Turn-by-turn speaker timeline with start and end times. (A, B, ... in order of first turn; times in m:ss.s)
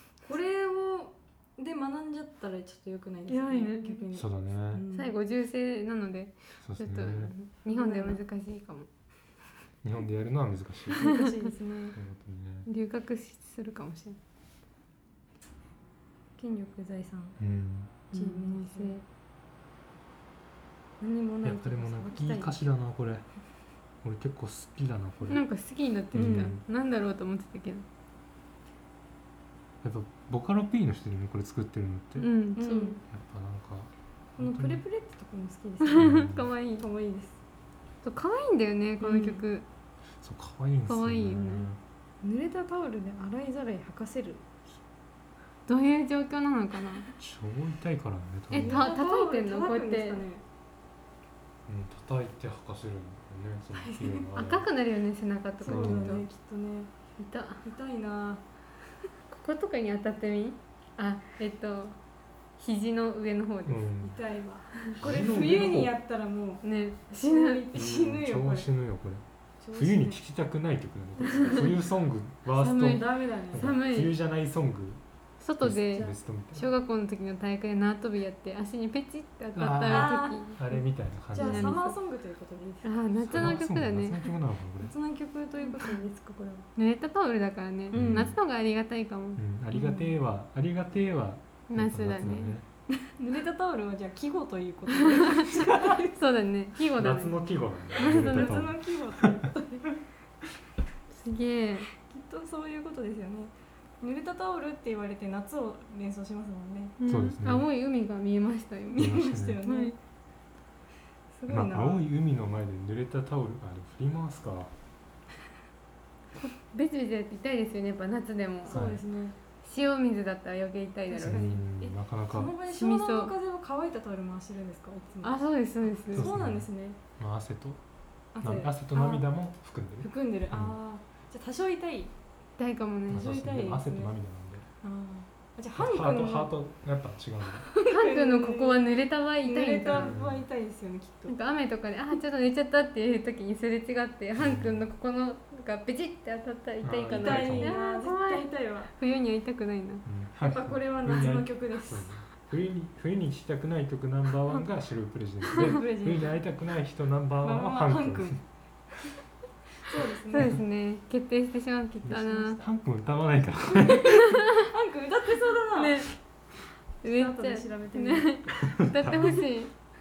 0:00.2-0:05.1 A
0:03.3-0:04.0 B
0:04.1-0:04.8 C
0:04.9-0:08.9 B
0:06.6-0:07.3 C
0:07.7-0:08.2 A
0:09.8-0:11.0 C
0:10.9-0:12.0 A
0:11.0-0:11.3 B
0:11.9-0:12.7 C
0:12.7-0:14.2 B
0:16.4-0:17.4 A
0:17.4-0:18.0 C
0:18.1-0:19.0 A
0:18.1-0:19.0 B
0:21.0-0:22.6 A
0:21.4-0:23.2 C
0:24.0-0:25.4 C
0:25.3-0:27.8 B
0:26.1-0:26.6 C
0:26.1-0:26.5 A
0:29.8-0:32.3 C
0:32.2-0:33.0 B
0:32.6-0:33.0 A
0:33.1-0:34.8 C
0:34.4-0:36.2 A
0:35.8-0:36.8 B
0:36.0-0:36.5 C
0:36.8-0:37.4 A
0:38.0-0:39.6 B
0:39.0-0:39.4 A
0:40.2-0:41.8 C
0:40.8-0:41.7 B
0:42.2-0:44.4 A
0:45.7-0:47.1 B
0:47.2-0:48.8 C
0:48.5-0:50.2 B
0:48.5-0:50.4 A
0:51.7-0:54.7 C
0:53.8-0:54.2 A
0:54.3-0:56.2 B
0:55.6-0:56.9 A
0:55.7-0:56.2 C
0:57.2-0:57.6 B
0:57.6-0:58.4 A
0:59.3-1:02.0 B
1:02.6-1:03.8 B
1:03.6-1:04.2 C
1:04.0-1:06.6 A
1:05.0-1:05.9 C
1:06.6-1:07.6 B
1:07.2-1:08.7 A
1:07.7-1:15.0 C
1:09.6-1:10.2 A
1:12.5-1:14.1 B
1:12.6-1:13.7 A
1:15.4-1:20.8 B
1:15.6-1:16.7 C
1:19.5-1:21.8 C
1:19.8-1:20.4 A
1:21.3-1:23.6 A
1:21.3-1:21.9 B
1:22.8-1:24.3 B
1:23.2-1:24.9 C
1:24.8-1:26.7 A
1:26.8-1:29.4 B
1:27.9-1:28.4 C
1:27.9-1:28.3 A
1:29.4-1:32.6 C
1:29.7-1:30.0 A
1:31.7-1:32.6 B
1:33.0-1:36.2 A
1:35.4-1:37.4 B
1:37.0-1:38.8 C
1:37.9-1:38.6 B
1:38.0-1:39.9 A
1:41.1-1:41.9 B
1:42.0-1:47.0 A
1:47.0-1:49.9 B
1:47.0-1:47.7 C
1:48.9-1:50.0 A
1:49.0-1:49.6 C
1:51.3-1:52.0 A
1:51.5-1:54.7 C
1:56.5-1:58.8 B
1:58.6-1:59.4 A
1:58.7-1:59.0 C
1:59.6-2:01.5 B
2:01.1-2:05.4 A
2:01.2-2:02.5 C
2:02.7-2:03.3 B
2:05.2-2:06.3 B
2:06.0-2:07.0 A
2:06.1-2:06.7 C
2:07.2-2:07.8 C
2:08.3-2:09.2 A
2:08.4-2:10.7 C
2:10.0-2:12.1 A
2:12.6-2:13.3 B
2:13.1-2:14.6 C
2:13.1-2:14.1 A
2:14.8-2:16.5 A
2:15.8-2:17.7 C
2:17.6-2:18.8 A
2:17.8-2:20.1 B
2:19.4-2:21.4 A
2:19.9-2:20.4 C
2:21.3-2:30.0 B
2:24.4-2:24.8 C
2:26.8-2:27.8 C
2:27.1-2:28.9 A
2:30.0-2:38.4 C
2:30.4-2:32.1 A
2:35.5-2:36.4 A
2:37.4-2:38.4 A
2:39.8-2:40.6 A
2:40.3-2:42.6 B
2:42.0-2:42.6 A
2:42.1-2:44.4 C
2:44.3-2:44.6 B
2:44.3-2:46.1 A
2:45.8-2:46.2 B
2:47.0-2:49.7 B
2:47.0-2:48.4 A
2:48.6-2:49.4 C